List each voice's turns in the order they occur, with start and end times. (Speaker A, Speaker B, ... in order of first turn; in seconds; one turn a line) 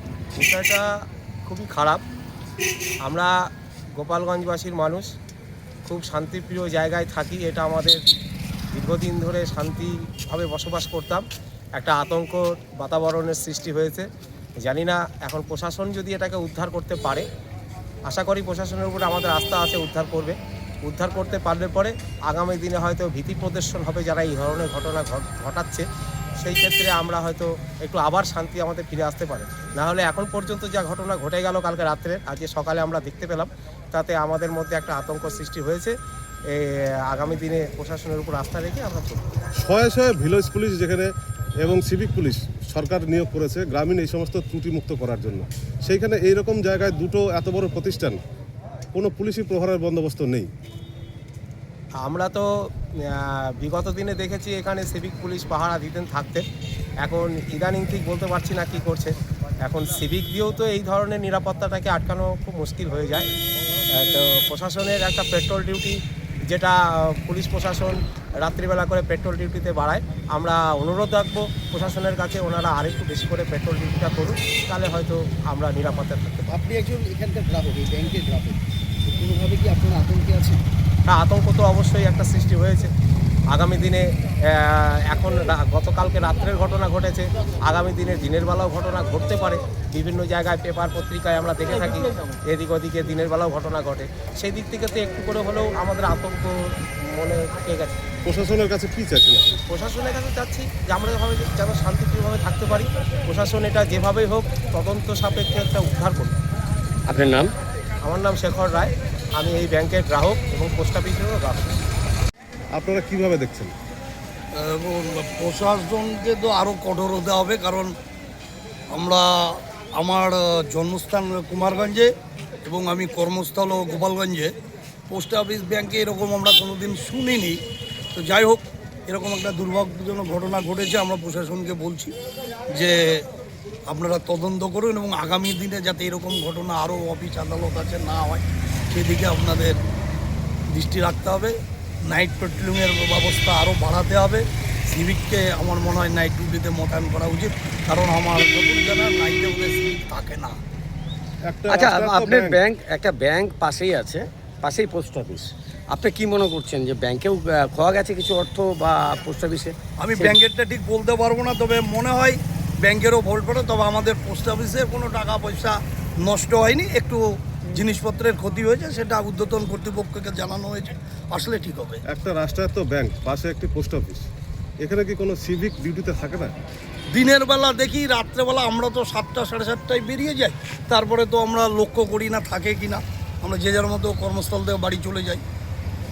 Speaker A: 0.3-0.8
Speaker A: 1.5-2.0
Speaker A: 3.0-5.1
Speaker A: 5.8-8.0
Speaker A: 8.7-11.2
Speaker A: 11.8-14.1
Speaker A: 14.6-17.3
Speaker A: 18.1-36.0
Speaker A: 36.5-39.3
Speaker B: 39.6-41.1
Speaker B: 41.6-48.2
Speaker B: 48.9-50.5
Speaker A: 52.0-56.5
Speaker A: 57.0-63.3
Speaker A: 63.9-76.5
Speaker C: 76.5-78.5
Speaker C: 79.1-80.5
Speaker A: 81.1-82.9
Speaker A: 83.5-98.0
Speaker B: 98.2-99.6
Speaker A: 99.7-106.4
Speaker D: 107.1-107.5
Speaker A: 108.0-111.8
Speaker B: 112.7-113.7
Speaker E: 114.5-117.9
Speaker E: 118.9-122.1
Speaker E: 122.6-124.5
Speaker E: 125.1-127.6
Speaker E: 128.1-132.1
Speaker E: 132.7-133.2
Speaker E: 133.9-139.8
Speaker E: 140.7-141.5
Speaker E: 142.1-150.6
Speaker B: 151.5-152.6
Speaker D: 151.7-152.5
Speaker A: 151.9-155.3
Speaker D: 153.3-159.8
Speaker A: 156.0-157.4
Speaker A: 158.0-159.4
Speaker E: 160.0-172.0
Speaker B: 172.1-174.3
Speaker B: 174.8-176.5
Speaker E: 177.1-185.4